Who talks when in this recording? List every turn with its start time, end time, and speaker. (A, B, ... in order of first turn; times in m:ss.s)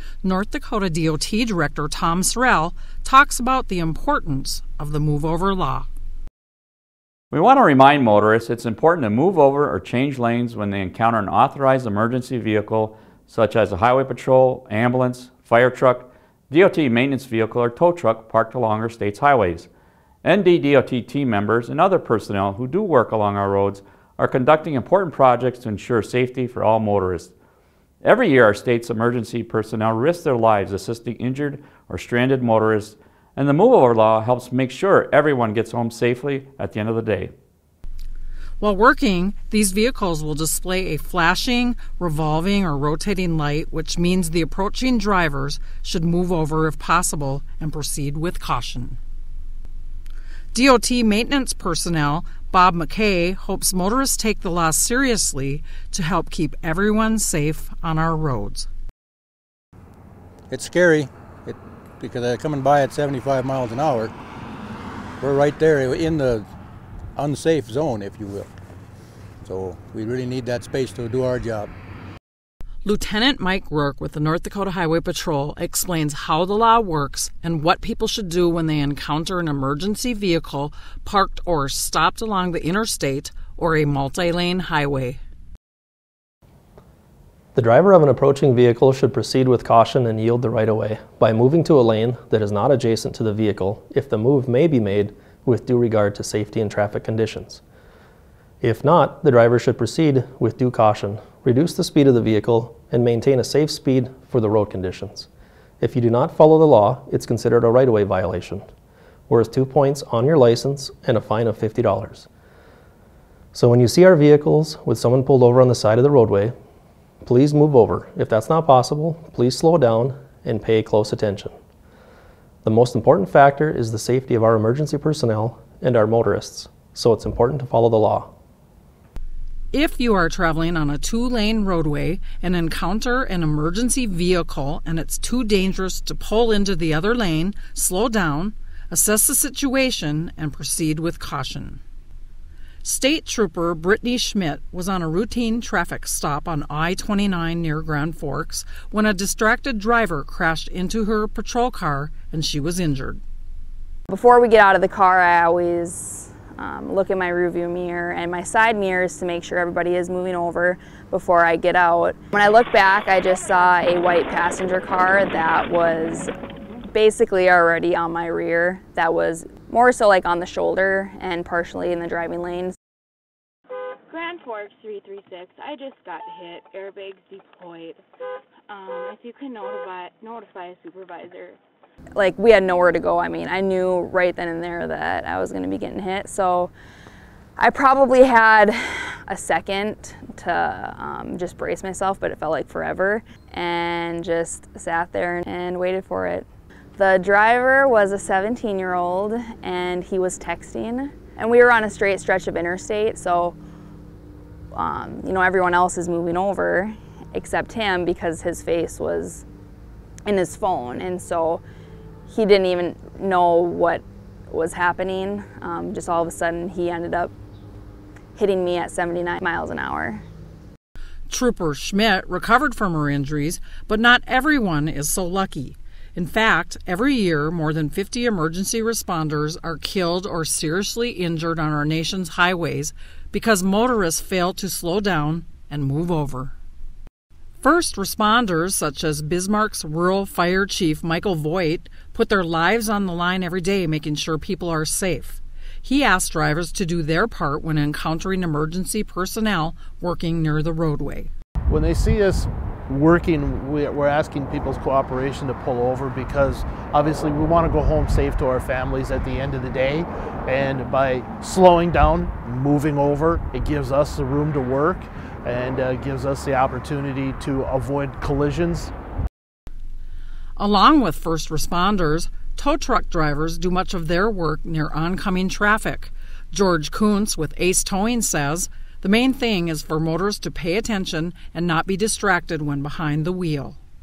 0:00.2-0:05.9 A
0:07.3-0:19.7 B
0:20.2-0:27.3 B
0:28.0-0:37.3 B
0:38.6-0:49.0 A
0:50.5-0:58.7 A
1:00.5-1:04.1 C
1:05.2-1:06.5 C
1:07.1-1:08.5 C
1:09.4-1:11.7 C
1:12.8-1:25.2 A
1:27.5-1:37.6 D
1:38.6-1:45.3 D
1:45.8-1:48.6 D
1:49.3-1:52.3 D
1:53.5-1:56.5 D
1:57.2-2:01.5 D
2:02.6-2:08.3 D
2:09.7-2:21.8 A
2:22.8-2:33.2 A
2:34.1-2:46.3 E
2:46.9-2:52.7 E
2:54.1-2:58.0 F
2:58.7-3:01.6 F
3:02.2-3:06.7 E
3:07.6-3:16.4 E
3:17.0-3:23.6 E
3:24.7-3:29.4 E
3:30.3-3:31.6 E
3:32.3-3:37.3 E
3:38.4-3:40.2 E
3:41.3-3:56.5 A
3:57.6-4:11.3 A
4:11.7-4:28.9 G
4:30.6-4:43.8 A